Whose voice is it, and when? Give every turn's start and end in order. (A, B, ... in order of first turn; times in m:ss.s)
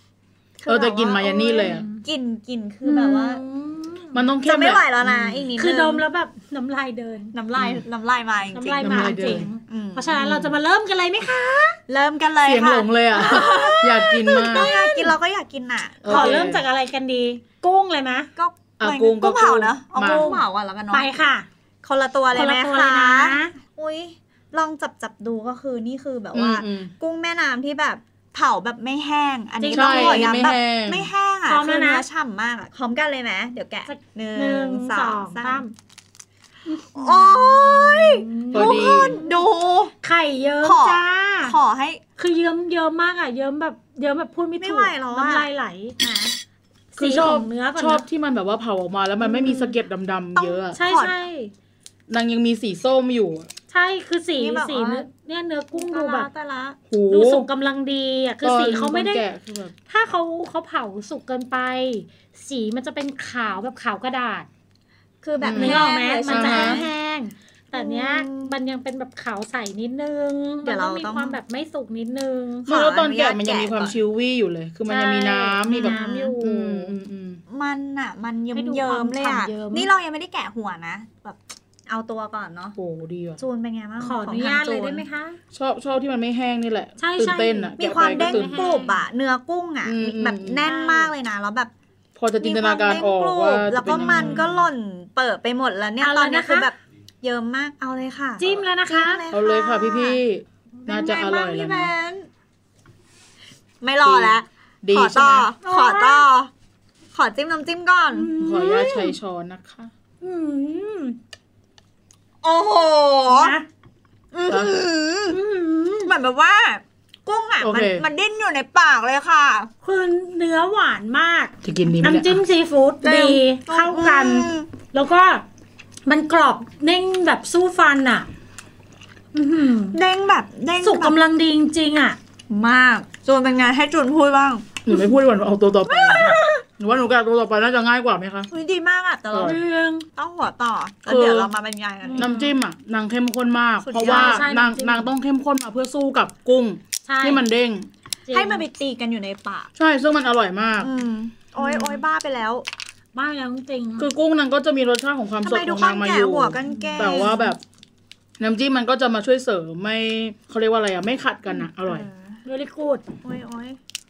0:00.6-0:03.4 A
0:00.7-0:01.8 B
0:01.6-0:02.0 C
0:02.8-0:04.2 C
0:04.1-0:05.5 B
0:04.4-0:06.0 A
0:05.6-0:07.3 C
0:07.3-0:10.3 A
0:07.6-0:07.8 B
0:08.5-0:11.8 C
0:08.8-0:09.5 B
0:10.2-0:10.5 B
0:11.9-0:16.6 A
0:12.5-0:14.7 B
0:14.5-0:15.1 C
0:16.0-0:16.6 B
0:16.1-0:18.3 C
0:18.4-0:21.1 A
0:18.8-0:20.4 B
0:20.0-0:21.5 C
0:21.8-0:35.7 A
0:22.3-0:23.6 C
0:26.3-0:26.9 B
0:29.6-0:30.4 C
0:29.7-0:31.1 B
0:31.5-0:32.0 C
0:33.9-0:35.7 C
0:36.7-0:39.4 C
0:36.9-0:39.9 A
0:38.5-0:39.2 B
0:40.0-0:41.6 C
0:40.6-0:42.0 A
0:42.2-0:46.0 C
0:44.6-0:45.5 A
0:46.0-0:46.4 A
0:46.9-0:48.1 C
0:47.0-0:50.8 B
0:49.3-0:49.7 C
0:50.4-0:51.2 A
0:50.8-0:51.5 C
0:52.1-0:53.5 B
0:53.7-0:56.3 C
0:54.4-0:55.1 A
0:55.7-0:56.8 A
0:56.9-0:57.5 B
0:57.1-0:59.2 C
0:58.4-0:59.7 B
0:59.9-1:04.5 C
1:05.2-1:06.9 A
1:05.4-1:06.8 B
1:05.6-1:12.7 C
1:07.7-1:08.6 A
1:10.6-1:11.4 A
1:12.6-1:14.0 A
1:12.7-1:17.4 B
1:14.9-1:17.0 C
1:15.7-1:16.4 A
1:17.5-1:22.8 A
1:18.5-1:19.9 C
1:22.8-1:23.4 B
1:23.4-1:25.0 A
1:24.0-1:25.4 C
1:25.5-1:28.6 B
1:27.0-1:29.0 C
1:27.8-1:31.7 A
1:29.8-1:30.6 B
1:30.6-1:31.1 C
1:32.2-1:34.6 B
1:32.4-1:40.2 A
1:34.0-1:34.5 C
1:36.0-1:36.7 C
1:38.4-1:39.2 C
1:39.3-1:41.9 B
1:40.9-1:42.3 A
1:43.8-1:46.5 A
1:44.0-1:45.5 B
1:45.6-1:46.2 C
1:47.1-1:48.3 A
1:48.1-1:49.1 C
1:48.4-1:49.9 B
1:50.2-1:51.2 C
1:52.4-1:53.6 A
1:53.3-1:53.7 C
1:54.3-1:55.4 A
1:55.3-1:56.1 C
1:56.1-1:59.7 A
1:57.6-1:58.0 B
1:59.8-2:05.4 C
2:01.6-2:02.4 B
2:03.0-2:04.7 A
2:06.1-2:08.3 C
2:09.3-2:10.0 C
2:09.9-2:11.2 A
2:10.8-2:12.2 C
2:12.5-2:14.8 A
2:14.9-2:18.5 B
2:15.9-2:16.6 A
2:18.5-2:19.6 A
2:19.4-2:20.1 C
2:20.1-2:22.3 A
2:21.1-2:21.5 B
2:22.0-2:22.5 C
2:22.2-2:27.9 B
2:23.8-2:24.5 A
2:24.0-2:25.1 C
2:27.1-2:27.4 C
2:28.3-2:28.6 C
2:28.3-2:29.7 A
2:29.8-2:30.9 B
2:30.8-2:32.7 A
2:31.6-2:32.0 C
2:33.2-2:34.1 C
2:34.0-2:37.6 B
2:35.4-2:37.5 A
2:36.7-2:37.5 C
2:38.4-2:42.1 B
2:41.8-2:42.4 A
2:42.4-2:43.0 C
2:43.2-2:43.8 A